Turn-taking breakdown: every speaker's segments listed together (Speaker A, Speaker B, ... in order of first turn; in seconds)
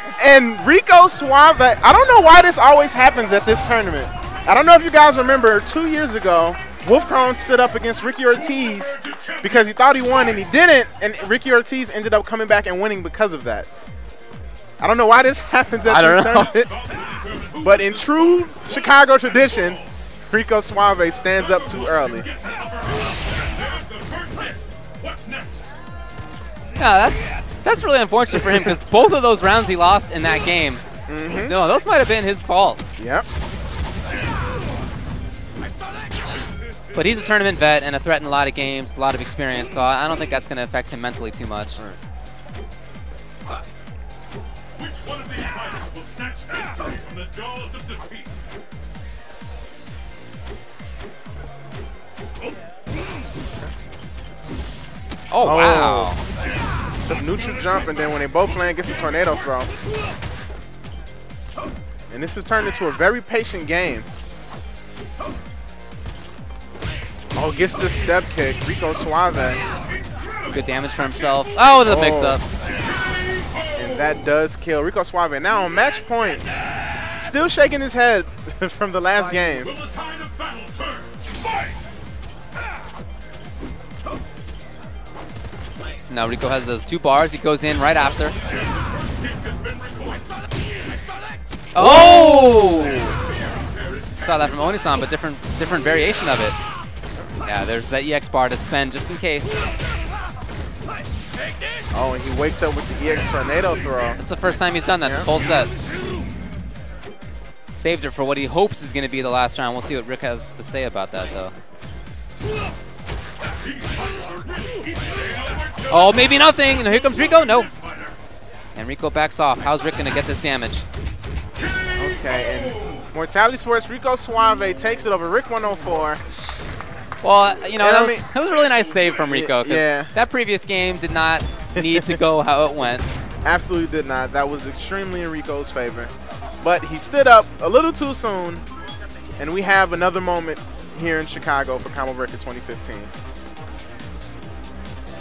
Speaker A: 0.2-13.7, 14.8-16.7, 17.6-22.3, 28.3-28.7, 31.1-31.6, 33.0-33.3, 55.4-56.1, 57.1-59.7, 62.1-64.1, 67.3-69.6, 71.9-72.4, 73.7-76.5, 77.2-79.8, 91.8-93.0, 101.9-104.2, 105.0-105.3, 122.0-126.2, 127.8-128.2, 129.3-130.1, 131.8-132.2, 133.4-138.7, 139.4-143.1
Speaker B: 15.9-16.7, 26.8-32.8, 36.9-41.8, 55.3-56.2, 70.5-72.4, 86.1-88.4, 91.7-93.2, 94.2-96.6, 97.4-99.6, 104.2-105.7, 107.7-111.5, 115.9-117.7, 118.8-120.9, 127.2-133.1
Speaker C: 23.7-24.4, 45.2-48.1